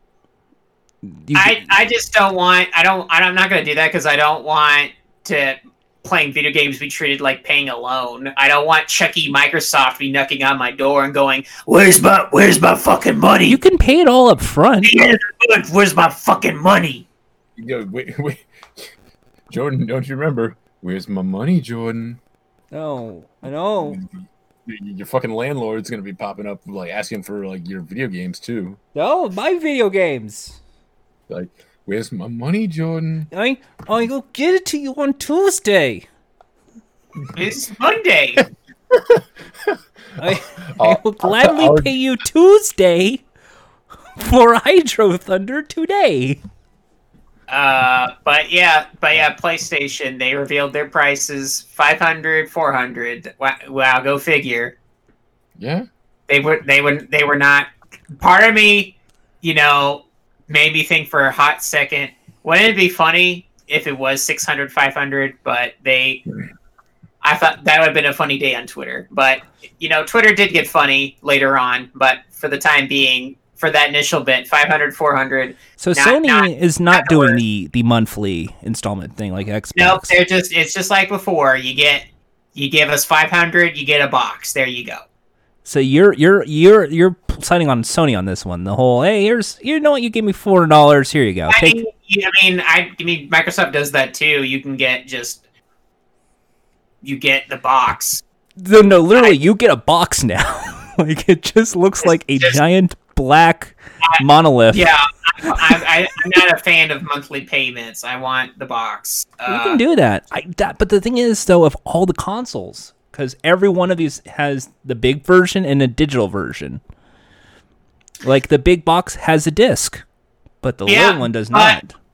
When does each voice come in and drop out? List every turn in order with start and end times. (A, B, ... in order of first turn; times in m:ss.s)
0:01.0-0:01.7 A
0:01.3-0:13.6 B
0:13.5-0:15.1 A
0:14.8-0:17.0 B
0:17.6-0:18.9 C
0:19.5-0:22.2 C
0:22.7-0:24.0 A
0:23.8-0:28.8 C
0:28.9-0:30.6 A
0:31.3-0:33.3 C
0:33.3-0:36.0 A
0:37.3-0:38.4 B
0:38.9-0:42.0 C
0:40.2-0:43.2 A
0:44.2-0:46.4 A
0:47.5-0:54.7 B
0:55.6-0:55.8 C
0:56.3-1:06.2 B
1:07.2-1:17.4 B
1:15.8-1:20.2 A
1:19.7-1:25.0 B
1:25.6-1:31.8 A
1:31.5-1:35.4 B
1:37.0-1:38.2 B
1:38.6-1:44.9 A
1:42.0-1:42.6 B
1:44.0-1:49.8 B
1:49.5-1:56.8 A
1:58.2-2:00.0 A
2:00.6-2:01.9 A
2:00.9-2:01.8 B